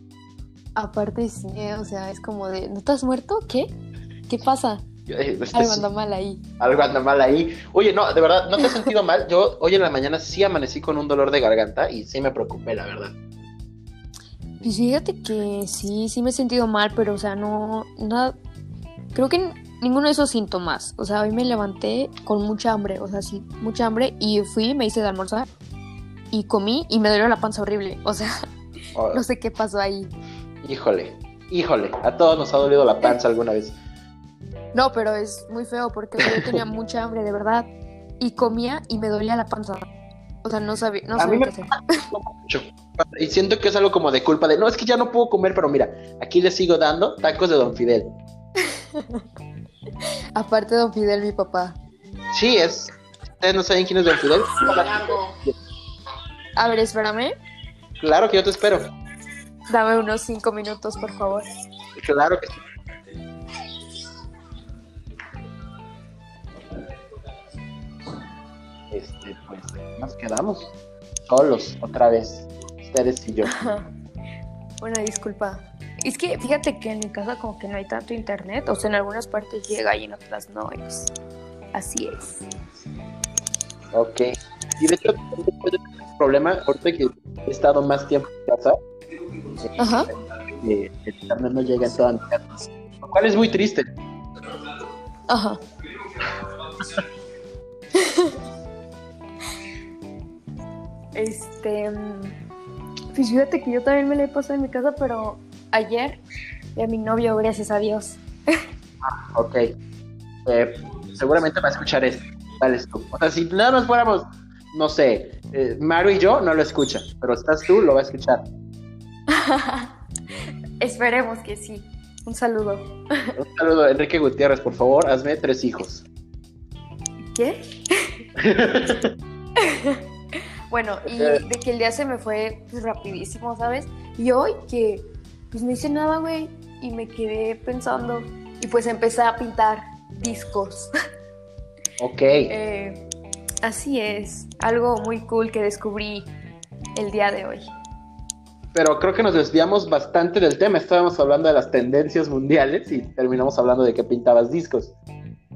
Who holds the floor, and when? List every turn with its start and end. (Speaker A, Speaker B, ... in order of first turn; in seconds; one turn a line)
Speaker A: 0.8-3.7
Speaker A: 4.3-4.8
Speaker B: 5.1-5.9
Speaker A: 5.5-6.4
Speaker B: 6.6-13.2
Speaker A: 14.6-18.3
Speaker A: 19.1-25.5
Speaker A: 26.3-28.4
Speaker B: 28.9-29.2
Speaker A: 29.1-30.1
Speaker B: 30.6-33.8
Speaker A: 34.7-37.7
Speaker B: 36.2-36.6
Speaker A: 38.2-39.9
Speaker A: 40.4-42.0
Speaker B: 41.2-48.1
Speaker A: 48.9-49.2
Speaker A: 50.4-51.8
Speaker B: 52.3-55.5
Speaker A: 56.5-57.3
Speaker B: 58.0-58.9
Speaker A: 59.7-61.5
Speaker B: 62.0-62.6
Speaker B: 68.9-70.7
Speaker B: 71.2-73.5
Speaker A: 73.5-73.9
Speaker A: 74.8-81.1
Speaker A: 81.7-82.4
Speaker B: 83.9-88.8
Speaker A: 89.8-90.1
Speaker B: 90.5-93.9
Speaker A: 95.3-95.6
Speaker A: 98.0-98.4
Speaker A: 101.1-102.3
Speaker A: 103.1-106.2
Speaker A: 106.8-108.6
Speaker B: 109.0-109.7
Speaker B: 110.5-118.5
Speaker A: 119.3-119.9
Speaker A: 120.8-123.3
Speaker B: 123.3-126.0
Speaker A: 127.3-128.1
Speaker B: 128.4-129.1
Speaker A: 129.6-130.0
Speaker A: 130.7-140.9
Speaker B: 131.1-131.4
Speaker B: 142.0-142.5
Speaker A: 142.5-143.1
Speaker A: 143.6-146.3
Speaker A: 146.9-147.7
Speaker B: 148.7-154.9